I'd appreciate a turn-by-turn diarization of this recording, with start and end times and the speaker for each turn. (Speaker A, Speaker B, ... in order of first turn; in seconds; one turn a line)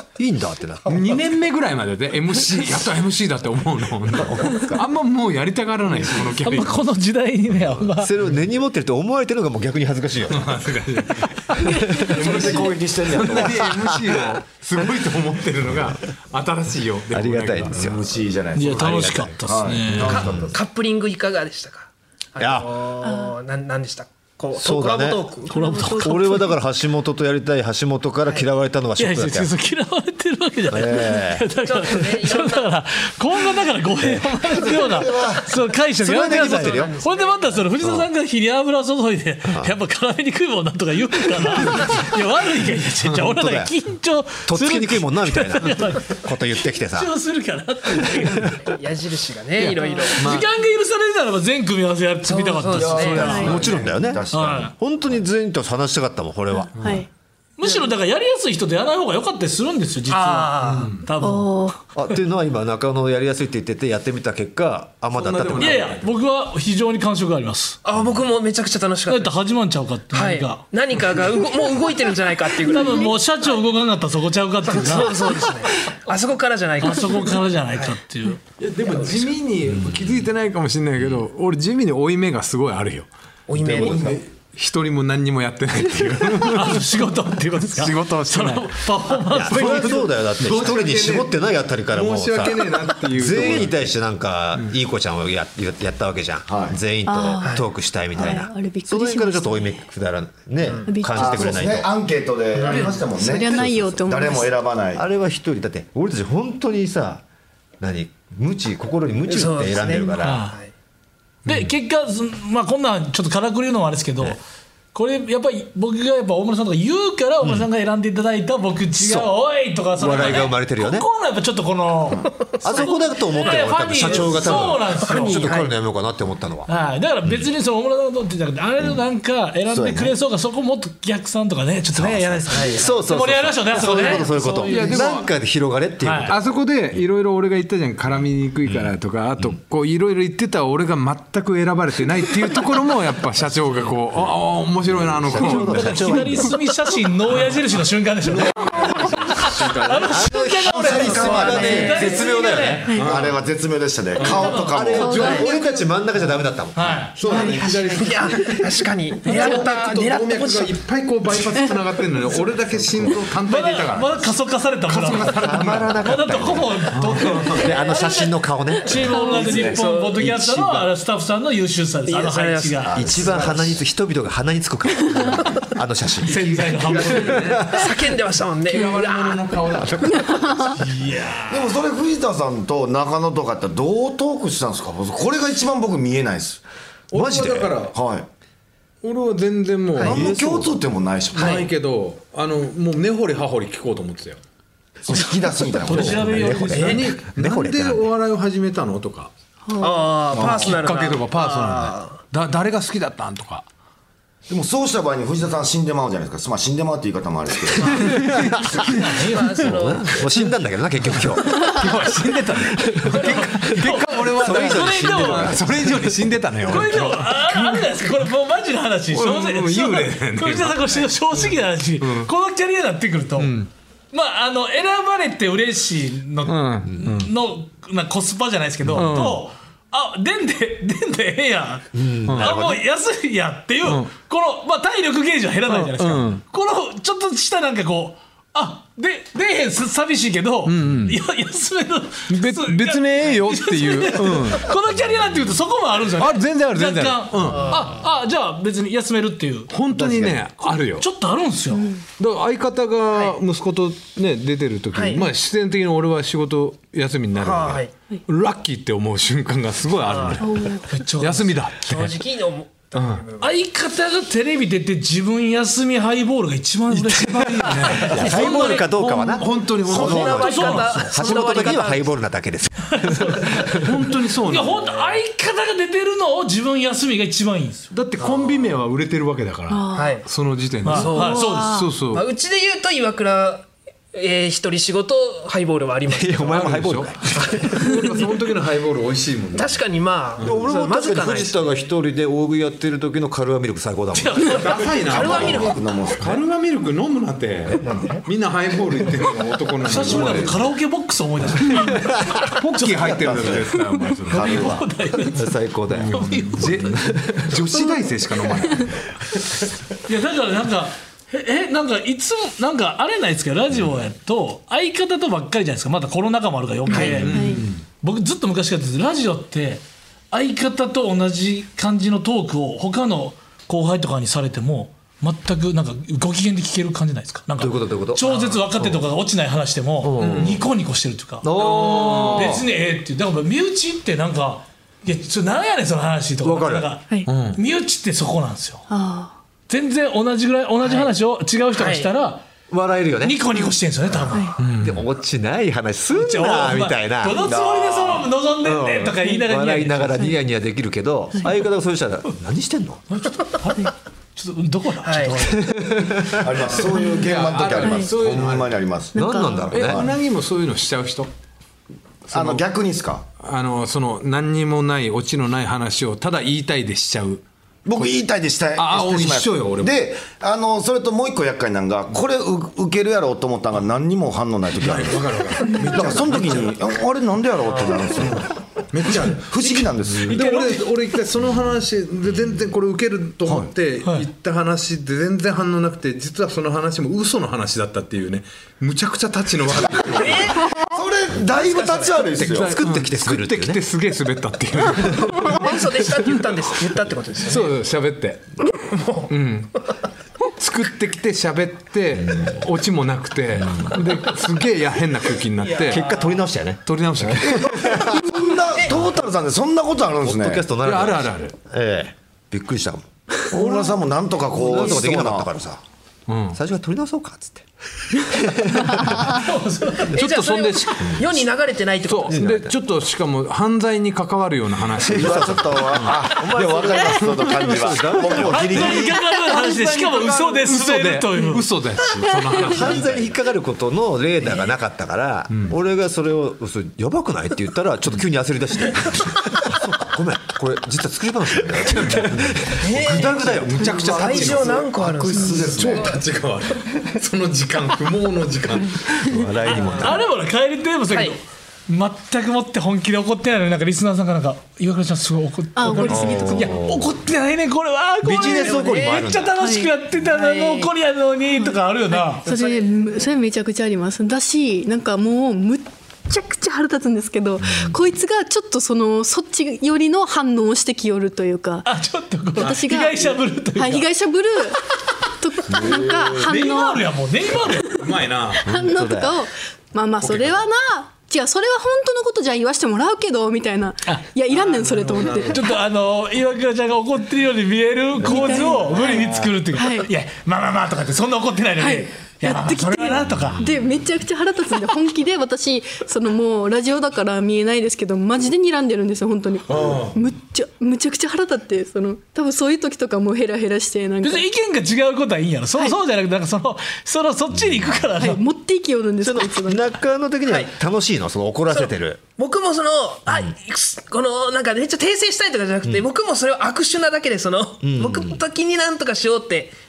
Speaker A: 0.2-1.1
Speaker B: 0.9-6.8
Speaker C: 4.3-4.8
Speaker D: 6.4-8.1
Speaker A: 7.6-10.7
Speaker B: 10.3-18.0
Speaker A: 11.6-12.2
Speaker C: 12.0-13.8
Speaker A: 13.9-14.2
Speaker A: 17.1-18.0
Speaker C: 17.7-20.5
Speaker D: 18.5-20.3
Speaker A: 18.8-19.3
Speaker A: 19.9-20.6
Speaker E: 20.0-25.6
Speaker A: 22.4-22.7
Speaker F: 23.0-23.4
Speaker A: 24.6-25.3
Speaker F: 25.5-26.5
Speaker D: 25.5-26.4
Speaker A: 26.0-29.5
Speaker D: 29.0-46.3
Speaker A: 30.7-31.5
Speaker E: 31.6-32.7
Speaker C: 34.4-35.5
Speaker A: 36.0-36.9
Speaker E: 36.2-37.6
Speaker A: 37.8-38.1
Speaker A: 39.5-39.7
Speaker A: 43.1-43.7
Speaker A: 44.5-47.1
Speaker D: 46.9-48.6
Speaker E: 48.6-50.2
Speaker B: 49.6-50.5
Speaker D: 50.2-54.7
Speaker E: 52.3-53.7
Speaker C: 52.8-54.7
Speaker F: 53.2-53.7
Speaker A: 53.3-57.0
Speaker F: 56.5-57.1
Speaker B: 56.8-57.0
Speaker D: 57.6-61.6
Speaker E: 60.1-60.9
Speaker B: 60.6-61.1
Speaker F: 61.2-61.8
Speaker A: 62.0-65.9
Speaker B: 65.1-66.1
Speaker D: 65.6-67.8
Speaker E: 67.8-69.3
Speaker D: 69.1-70.6
Speaker E: 70.1-73.2
Speaker D: 72.7-75.4
Speaker E: 74.7-78.0
Speaker D: 76.8-78.5
Speaker B: 78.6-86.9
Speaker A: 79.8-80.2
Speaker E: 83.5-84.2
Speaker A: 83.7-84.0
Speaker D: 86.5-90.2
Speaker B: 87.7-91.4
Speaker A: 89.3-101.9
Speaker B: 91.9-93.9
Speaker C: 96.5-96.8
Speaker F: 97.1-97.6
Speaker F: 98.1-99.8
Speaker E: 100.6-100.9
Speaker F: 100.9-101.6
Speaker C: 101.1-105.0
Speaker E: 102.6-103.0
Speaker F: 102.8-104.5
Speaker A: 103.4-104.0
Speaker A: 104.9-107.2
Speaker A: 107.8-110.5
Speaker E: 109.3-110.7
Speaker D: 110.2-110.6
Speaker D: 111.5-114.4
Speaker D: 114.9-125.6
Speaker A: 117.4-117.7
Speaker A: 119.0-119.3
Speaker A: 120.0-121.1
Speaker E: 122.5-125.7
Speaker A: 122.6-126.7
Speaker D: 126.7-135.1
Speaker C: 129.7-130.2
Speaker A: 132.0-136.6
Speaker E: 132.5-132.8
Speaker E: 133.8-134.2
Speaker B: 134.7-135.3
Speaker D: 136.0-136.3
Speaker B: 136.3-146.3
Speaker A: 138.7-138.9
Speaker A: 144.9-146.6
Speaker D: 145.4-152.9
Speaker B: 147.3-147.6
Speaker B: 148.2-150.2
Speaker A: 150.1-153.0
Speaker C: 150.7-152.2
Speaker E: 151.4-152.2
Speaker B: 152.9-153.4
Speaker C: 153.0-155.5
Speaker B: 154.2-156.4
Speaker D: 154.2-154.9
Speaker A: 154.7-157.1
Speaker F: 155.0-155.4
Speaker D: 156.8-157.2
Speaker B: 157.2-158.6
Speaker F: 157.2-157.8
Speaker E: 157.3-160.8
Speaker B: 159.2-164.4
Speaker D: 163.4-173.1
Speaker B: 164.9-166.0
Speaker A: 165.2-169.1
Speaker B: 166.9-167.5
Speaker F: 169.1-169.7
Speaker E: 169.3-170.3
Speaker C: 169.4-169.8
Speaker B: 170.2-170.9
Speaker E: 172.1-173.6
Speaker C: 172.9-173.8
Speaker A: 172.9-176.4
Speaker D: 176.2-177.6
Speaker B: 176.2-177.8
Speaker A: 177.1-177.9
Speaker E: 177.7-179.5
Speaker B: 178.7-180.7
Speaker F: 180.1-180.8
Speaker D: 180.8-181.8
Speaker C: 181.5-186.6
Speaker B: 187.1-188.0
Speaker A: 187.1-187.8
Speaker C: 187.9-188.3
Speaker B: 189.0-190.2
Speaker C: 190.0-191.7
Speaker A: 190.0-190.8
Speaker B: 191.3-194.4
Speaker E: 191.3-191.7
Speaker C: 195.1-196.8
Speaker D: 195.6-197.2
Speaker A: 195.9-198.1
Speaker B: 196.7-199.3
Speaker F: 199.7-200.1
Speaker E: 199.8-202.2
Speaker C: 200.3-200.8
Speaker B: 200.3-203.7
Speaker C: 204.5-208.2
Speaker E: 207.8-208.3
Speaker B: 208.1-209.2
Speaker A: 208.1-208.8
Speaker D: 208.8-209.5
Speaker E: 209.2-210.2
Speaker A: 209.6-211.8
Speaker B: 211.0-218.0
Speaker A: 212.7-216.1
Speaker D: 213.0-215.6
Speaker D: 216.7-223.6
Speaker B: 219.1-222.3
Speaker B: 223.4-223.7
Speaker D: 224.1-249.7
Speaker B: 226.4-227.3
Speaker B: 228.9-229.4
Speaker A: 231.9-232.8
Speaker B: 232.3-232.6
Speaker B: 233.8-234.1
Speaker B: 235.7-236.4
Speaker B: 240.7-241.2
Speaker B: 242.3-244.7
Speaker B: 246.1-247.9
Speaker B: 249.7-251.1
Speaker C: 249.9-250.4
Speaker D: 251.0-251.9
Speaker F: 251.7-252.0
Speaker B: 252.2-262.2
Speaker E: 254.9-255.2
Speaker E: 257.4-257.9
Speaker E: 260.1-260.5
Speaker F: 260.4-260.9
Speaker D: 260.9-261.6
Speaker E: 261.9-263.6
Speaker B: 262.9-263.3
Speaker D: 263.4-268.9
Speaker B: 266.9-270.8
Speaker E: 268.1-268.8
Speaker A: 268.1-273.9
Speaker E: 269.9-272.1
Speaker D: 269.9-271.5
Speaker D: 272.9-273.8
Speaker B: 273.7-275.0
Speaker D: 274.5-277.9
Speaker B: 277.9-282.3
Speaker E: 278.2-278.7
Speaker F: 279.7-280.2
Speaker E: 279.9-280.3
Speaker D: 280.8-281.8
Speaker E: 280.9-281.5
Speaker F: 281.1-281.9
Speaker E: 282.1-286.7
Speaker A: 286.1-287.7
Speaker B: 286.5-289.8
Speaker E: 287.4-287.7
Speaker E: 289.5-291.9
Speaker A: 290.4-294.6
Speaker D: 294.1-295.0
Speaker B: 294.5-300.7
Speaker E: 295.1-295.8
Speaker C: 295.1-296.4
Speaker A: 297.8-298.2
Speaker D: 299.8-303.0
Speaker B: 301.6-304.8
Speaker C: 303.1-303.6
Speaker D: 304.3-305.6
Speaker C: 304.3-304.8
Speaker A: 305.3-307.5
Speaker B: 305.9-309.2
Speaker D: 306.1-306.9
Speaker F: 308.6-308.9
Speaker D: 310.1-338.9
Speaker B: 316.9-317.8
Speaker F: 317.2-317.6
Speaker A: 327.6-329.0
Speaker A: 330.0-330.6
Speaker B: 330.2-330.7
Speaker A: 331.4-332.7
Speaker B: 331.5-332.6
Speaker A: 336.4-336.9
Speaker B: 337.3-337.6
Speaker F: 338.9-339.3
Speaker D: 339.7-342.4
Speaker E: 341.8-342.1
Speaker A: 342.7-343.4
Speaker D: 343.2-344.5
Speaker B: 344.6-345.1
Speaker A: 344.6-347.4
Speaker D: 346.1-350.3
Speaker C: 347.4-348.3
Speaker A: 348.6-353.0
Speaker D: 353.1-356.1
Speaker E: 355.0-355.4
Speaker A: 355.7-356.8
Speaker C: 356.4-360.2
Speaker F: 356.9-357.2
Speaker B: 356.9-358.8
Speaker F: 357.8-358.1
Speaker F: 359.1-359.7
Speaker A: 359.1-360.0
Speaker B: 359.7-361.3
Speaker B: 362.3-362.6
Speaker C: 362.3-363.3
Speaker B: 363.4-367.4
Speaker C: 367.9-378.5
Speaker B: 368.8-370.0
Speaker B: 374.8-376.8
Speaker E: 377.7-378.1
Speaker B: 378.1-390.6
Speaker C: 379.2-380.4
Speaker D: 380.3-380.8
Speaker C: 390.1-392.8
Speaker E: 390.2-390.9
Speaker E: 391.5-392.3
Speaker A: 392.4-393.8
Speaker B: 392.4-395.9
Speaker E: 395.4-397.8
Speaker B: 397.4-398.6
Speaker E: 398.9-399.3
Speaker B: 399.3-399.8
Speaker B: 400.6-406.1
Speaker E: 405.7-406.4
Speaker A: 405.9-408.3
Speaker B: 406.9-407.7
Speaker C: 407.4-410.7
Speaker A: 410.2-413.1
Speaker B: 410.8-411.5
Speaker C: 413.5-415.5
Speaker F: 413.5-413.9
Speaker A: 414.5-415.8
Speaker B: 416.3-416.6
Speaker A: 416.5-419.3
Speaker F: 418.9-419.2
Speaker D: 419.2-420.2
Speaker B: 420.1-421.4
Speaker E: 420.1-422.5
Speaker B: 422.1-426.0
Speaker A: 422.3-422.8
Speaker A: 425.0-429.1
Speaker C: 425.0-429.2
Speaker D: 428.4-431.6
Speaker B: 429.0-433.4
Speaker A: 432.6-444.7
Speaker B: 435.5-435.8
Speaker B: 442.0-449.3
Speaker E: 442.8-446.2
Speaker C: 444.0-446.2
Speaker A: 449.2-450.2
Speaker D: 449.7-462.4
Speaker E: 449.7-450.1
Speaker F: 455.8-456.8
Speaker A: 456.1-457.1
Speaker A: 458.2-459.6
Speaker E: 458.4-459.3
Speaker F: 459.6-459.9
Speaker E: 460.2-460.9
Speaker F: 461.6-471.9
Speaker E: 462.4-463.2
Speaker A: 467.6-467.9
Speaker D: 471.9-474.1
Speaker F: 472.6-474.8
Speaker B: 472.6-472.9
Speaker F: 475.3-477.1
Speaker B: 475.8-476.8
Speaker D: 476.3-478.0
Speaker B: 477.9-478.8
Speaker F: 478.6-485.6
Speaker A: 478.7-479.4
Speaker B: 480.2-480.6
Speaker B: 484.5-485.6
Speaker D: 485.5-493.6
Speaker F: 488.2-490.1
Speaker B: 488.3-489.6
Speaker F: 491.8-504.5
Speaker A: 493.4-493.7
Speaker B: 499.7-500.2
Speaker D: 504.2-508.4
Speaker A: 507.5-508.1
Speaker F: 508.2-509.9
Speaker A: 509.2-512.2
Speaker E: 510.5-510.7
Speaker E: 511.7-519.8
Speaker A: 513.3-513.5
Speaker A: 517.8-518.4